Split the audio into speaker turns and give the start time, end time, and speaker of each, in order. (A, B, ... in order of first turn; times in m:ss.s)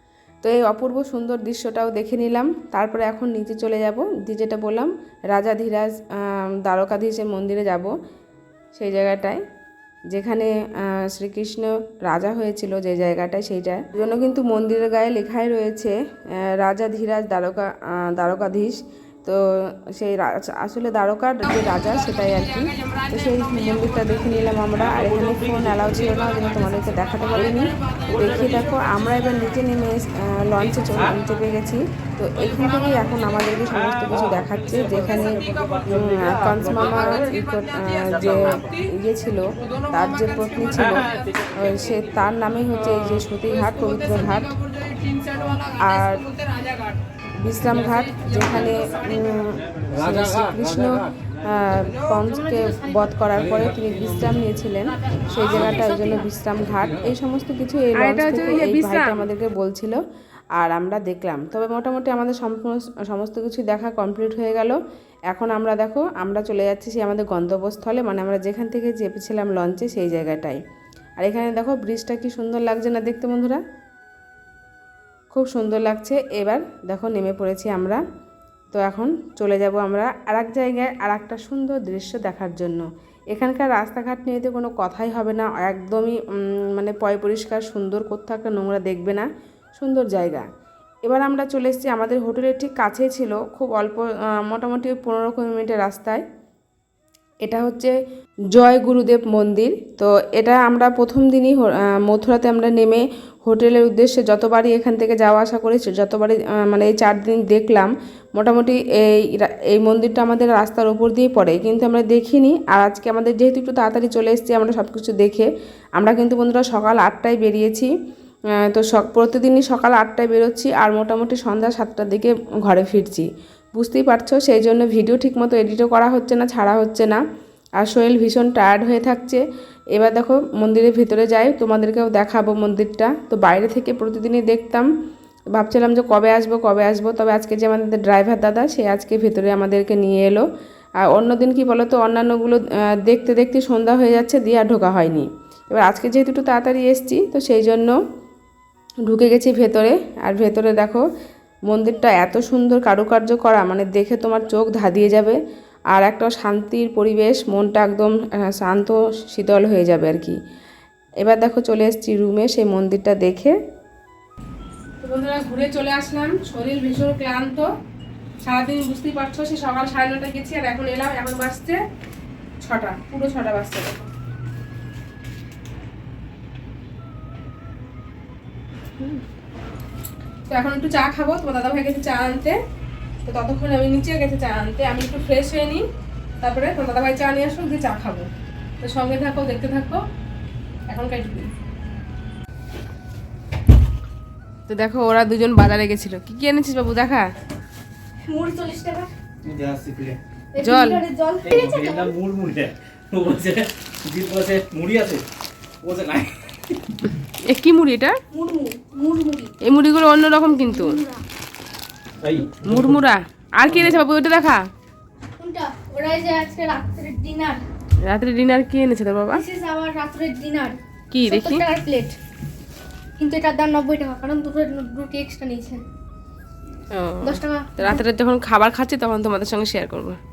0:00.4-0:07.9 A
0:08.7-0:09.4 A
0:10.1-0:19.4 A
0:20.0-0:44.5 A
0:45.8-0:46.3 A
0:47.4-1:00.0 A
0:57.9-0:59.2 B
1:00.6-1:10.6 A
1:11.2-1:13.6 A
1:15.3-1:18.0 A
1:18.7-1:30.4 A
1:31.0-1:36.2 A
1:37.4-1:37.9 A
1:38.5-1:57.9 A
1:58.6-2:07.2 A
2:07.8-2:09.4 A
2:09.9-2:14.9 A
2:15.5-2:20.4 A
2:21.0-2:27.9 A
2:29.0-2:31.0 A
2:31.7-2:35.4 A
2:35.9-2:40.4 A
2:41.2-2:43.5 A
2:45.0-2:47.7 B
2:48.4-2:51.8 B
2:52.6-2:54.1 B
3:00.5-3:02.6 B
3:03.2-3:05.8 B
3:06.4-3:08.3 B
3:08.8-3:10.0 B
3:10.9-3:11.5 B
3:14.7-3:17.3 B
3:18.2-3:19.1 C
3:19.4-3:20.2 D
3:20.5-3:22.2 C
3:20.6-3:21.0 B
3:21.4-3:25.2 D
3:25.8-3:27.0 D
3:27.5-3:28.2 B
3:28.3-3:29.6 C
3:29.6-3:31.0 B
3:30.4-3:31.2 C
3:32.2-3:33.0 D
3:32.6-3:34.6 B
3:33.6-3:34.0 D
3:35.4-3:37.6 C
3:38.0-3:39.4 B
3:39.3-3:42.2 C
3:41.1-3:41.6 B
3:43.2-3:45.8 C
3:46.9-3:50.2 B
3:47.2-3:48.0 C